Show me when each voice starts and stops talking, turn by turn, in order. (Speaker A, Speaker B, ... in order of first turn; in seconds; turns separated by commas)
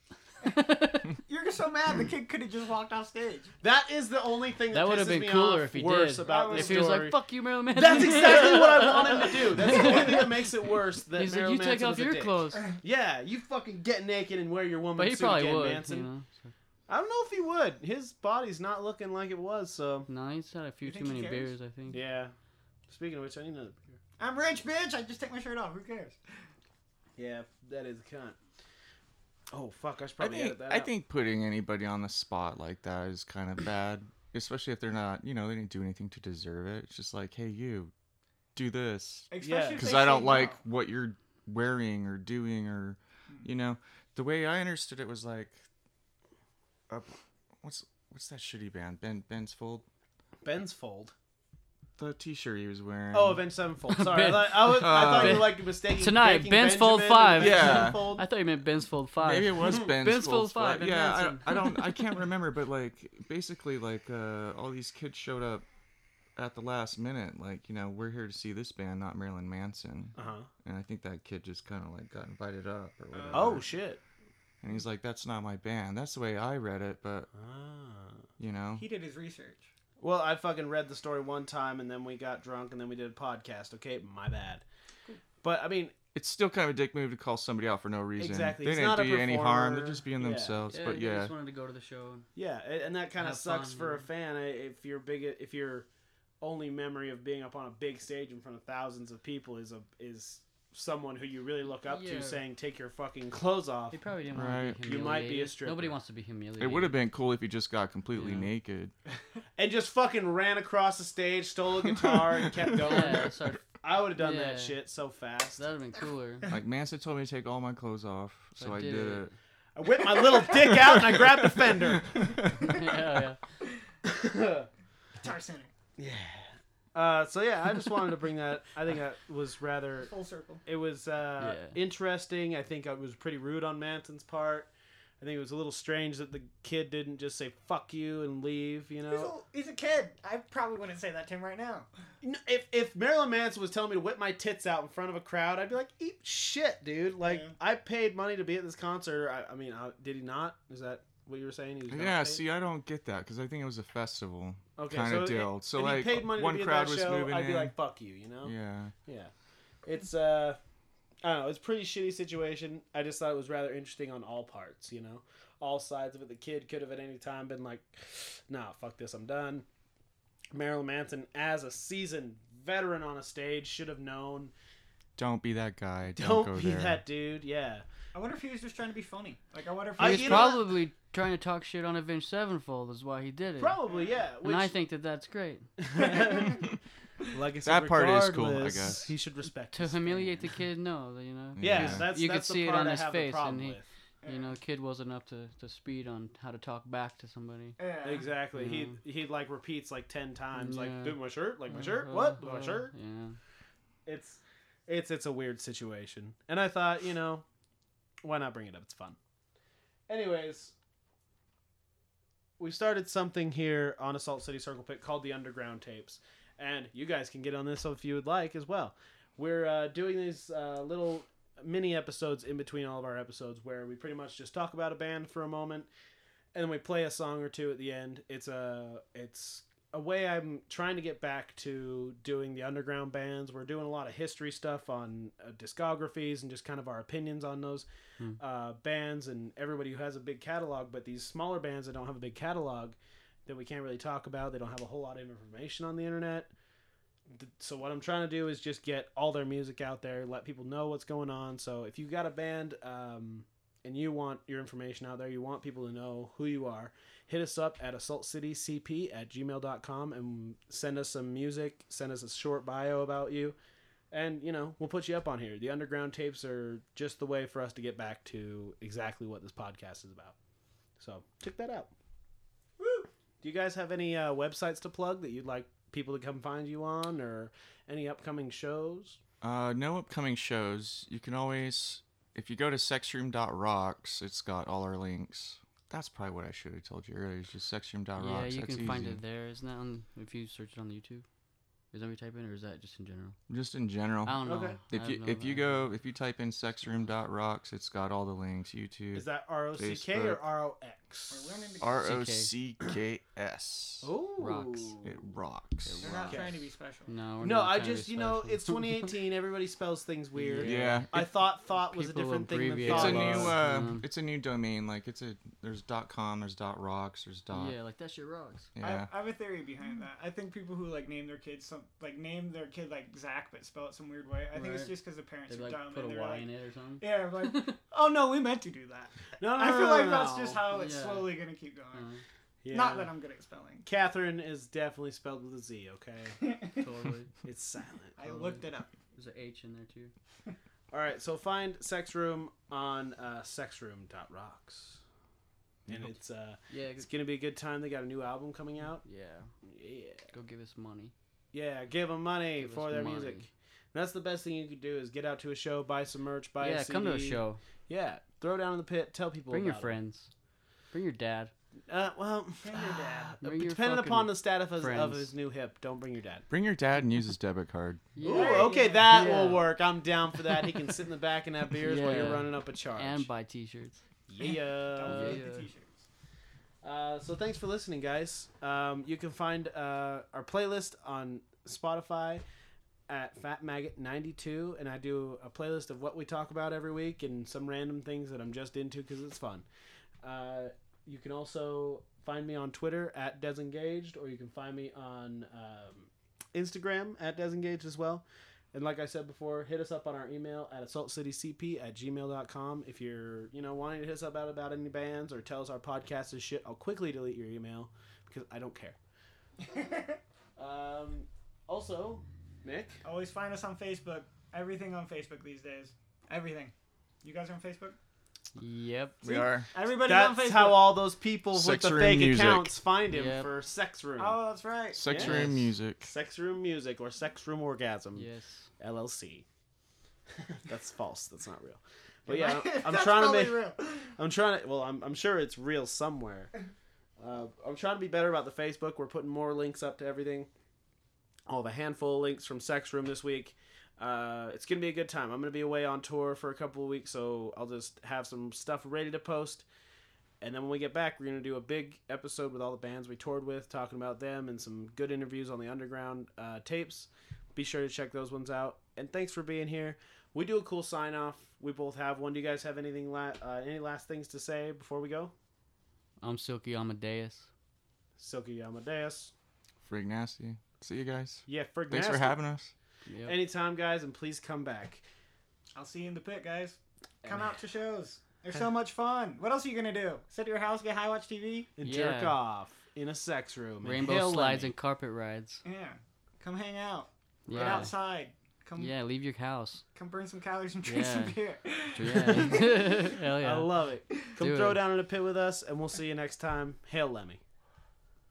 Speaker A: 0.5-3.5, Speaker B: 0.6-1.0, Speaker C: 3.6-7.2, Speaker B: 4.7-10.3, Speaker A: 6.2-7.0, Speaker C: 7.7-16.1, Speaker A: 9.6-10.2, Speaker B: 11.1-12.7, Speaker B: 15.0-16.5, Speaker C: 16.9-20.1, Speaker B: 20.1-22.0, Speaker A: 20.9-21.6, Speaker C: 21.9-22.3, Speaker C: 22.9-23.8, Speaker A: 24.2-26.2, Speaker C: 27.2-28.4, Speaker C: 29.5-30.9, Speaker D: 30.2-37.9, Speaker D: 38.5-45.7, Speaker A: 39.3-40.6, Speaker C: 39.4-39.9, Speaker D: 46.9-49.9, Speaker C: 50.4-51.1, Speaker D: 52.0-53.4, Speaker C: 53.1-58.2, Speaker B: 53.9-62.0, Speaker D: 54.7-55.5, Speaker D: 57.4-58.1, Speaker D: 59.2-65.7, Speaker C: 59.6-59.9, Speaker D: 66.4-73.7, Speaker C: 70.2-70.5, Speaker A: 73.1-73.8, Speaker C: 73.3-74.0, Speaker D: 74.6-77.3, Speaker C: 77.3-78.3, Speaker D: 78.4-78.9, Speaker A: 78.8-79.7, Speaker C: 80.0-84.6, Speaker C: 85.4-85.9, Speaker D: 86.1-91.3, Speaker C: 88.2-90.6, Speaker B: 90.7-92.3, Speaker C: 92.3-95.9, Speaker B: 93.2-94.1, Speaker C: 96.4-104.0, Speaker B: 101.7-102.4, Speaker B: 103.9-107.0, Speaker D: 104.3-105.0, Speaker C: 104.8-106.0, Speaker D: 106.6-108.9, Speaker B: 108.2-108.5, Speaker C: 109.6-115.6, Speaker B: 112.8-114.8, Speaker B: 115.6-116.5, Speaker D: 116.5-119.3, Speaker B: 118.6-119.3, Speaker C: 119.8-122.3, Speaker D: 120.7-121.7, Speaker D: 122.2-122.6, Speaker B: 122.6-123.4, Speaker C: 124.0-124.7, Speaker A: 125.2-125.7, Speaker C: 126.0-130.1, Speaker A: 130.0-130.6, Speaker C: 130.7-134.7, Speaker B: 131.4-131.8, Speaker C: 135.2-139.3, Speaker A: 139.1-141.9, Speaker C: 142.2-152.4, Speaker A: 147.2-147.5, Speaker D: 151.9-157.8, Speaker C: 154.8-159.3, Speaker D: 158.4-158.9, Speaker C: 159.8-160.6, Speaker C: 161.2-169.7, Speaker C: 170.5-174.5, Speaker D: 175.2-177.0, Speaker C: 176.2-177.8, Speaker A: 178.1-180.6, Speaker C: 180.0-180.7, Speaker B: 180.0-183.8, Speaker C: 183.6-184.7, Speaker B: 184.4-185.7, Speaker C: 185.8-186.6, Speaker A: 186.0-186.4, Speaker C: 187.3-190.5, Speaker D: 187.6-189.1, Speaker B: 189.7-197.8, Speaker D: 191.6-192.1, Speaker C: 191.6-193.9, Speaker A: 194.2-194.5, Speaker A: 197.8-198.3, Speaker C: 198.0-202.9, Speaker B: 198.6-199.0, Speaker B: 200.6-203.4, Speaker C: 204.1-207.4, Speaker C: 208.2-209.2, Speaker C: 210.1-210.7, Speaker C: 212.6-225.9, Speaker C: 226.5-237.8, Speaker C: 238.4-246.5, Speaker C: 247.3-263.6, Speaker C: 264.1-270.4, Speaker C: 271.0-271.9, Speaker A: 272.8-273.1, Speaker C: 273.4-279.2, Speaker D: 279.4-289.2, Speaker B: 288.2-291.3, Speaker B: 291.9-293.4, Speaker D: 293.5-300.4, Speaker B: 294.2-295.9, Speaker C: 294.4-294.8, Speaker C: 299.1-301.5, Speaker A: 301.3-301.9, Speaker D: 301.8-304.1, Speaker B: 302.0-302.5, Speaker C: 304.0-305.2, Speaker B: 304.4-304.9, Speaker D: 305.0-306.4, Speaker B: 305.9-306.5, Speaker A: 306.0-307.1, Speaker C: 306.3-306.5, Speaker B: 307.1-309.1, Speaker C: 307.4-313.6, Speaker B: 310.4-314.1, Speaker D: 310.6-311.1, Speaker D: 312.9-317.8, Speaker B: 317.5-318.7, Speaker D: 318.8-319.1, Speaker A: 318.8-326.5, Speaker B: 324.5-327.8, Speaker A: 327.0-332.1, Speaker C: 329.4-330.6, Speaker B: 330.7-331.4, Speaker B: 331.9-332.2, Speaker C: 332.6-333.1, Speaker A: 332.7-333.9, Speaker C: 333.9-336.5, Speaker A: 336.4-336.8, Speaker B: 336.8-337.3, Speaker C: 337.4-338.2, Speaker A: 338.2-338.9, Speaker B: 338.2-340.1, Speaker C: 340.9-345.0, Speaker C: 345.9-349.1, Speaker B: 346.7-347.1, Speaker B: 349.0-349.5, Speaker C: 349.6-350.3, Speaker B: 350.3-351.1, Speaker C: 351.5-359.9, Speaker B: 352.6-353.5, Speaker B: 356.6-357.6, Speaker B: 359.5-360.3, Speaker B: 360.9-361.5, Speaker C: 361.9-366.4, Speaker A: 362.6-363.4, Speaker B: 363.4-365.3, Speaker D: 366.5-368.1, Speaker B: 368.1-369.7, Speaker C: 368.2-373.3, Speaker A: 368.2-369.4, Speaker B: 371.8-374.0, Speaker C: 374.3-375.4, Speaker A: 374.4-376.1, Speaker B: 375.1-375.7, Speaker C: 376.8-382.4, Speaker C: 383.1-389.7, Speaker C: 390.2-409.0, Speaker A: 409.6-410.2, Speaker C: 410.6-413.0, Speaker A: 413.0-418.0, Speaker B: 418.6-419.5, Speaker D: 419.2-419.7, Speaker A: 419.7-421.0, Speaker C: 420.0-424.4, Speaker D: 421.5-422.8, Speaker B: 423.1-423.5, Speaker A: 424.2-425.0, Speaker D: 424.9-426.1, Speaker C: 425.1-428.3, Speaker B: 425.1-425.6, Speaker B: 428.1-428.7, Speaker C: 428.8-429.4, Speaker C: 430.4-436.5, Speaker A: 432.3-434.0, Speaker C: 437.2-440.5, Speaker C: 441.5-449.6, Speaker C: 450.4-465.3, Speaker B: 466.2-467.5, Speaker C: 468.2-469.3, Speaker D: 469.8-472.7, Speaker C: 471.5-472.4, Speaker B: 473.1-473.4, Speaker C: 473.3-475.0, Speaker A: 475.8-481.7, Speaker C: 477.2-477.6, Speaker C: 481.8-484.7, Speaker B: 481.8-482.4, Speaker B: 483.8-485.6, Speaker A: 485.6-488.9, Speaker B: 487.5-487.9, Speaker C: 487.5-487.9, Speaker B: 488.8-489.9, Speaker A: 489.9-492.6, Speaker B: 490.8-491.4, Speaker B: 491.9-493.7, Speaker C: 492.1-497.4, Speaker B: 494.4-494.8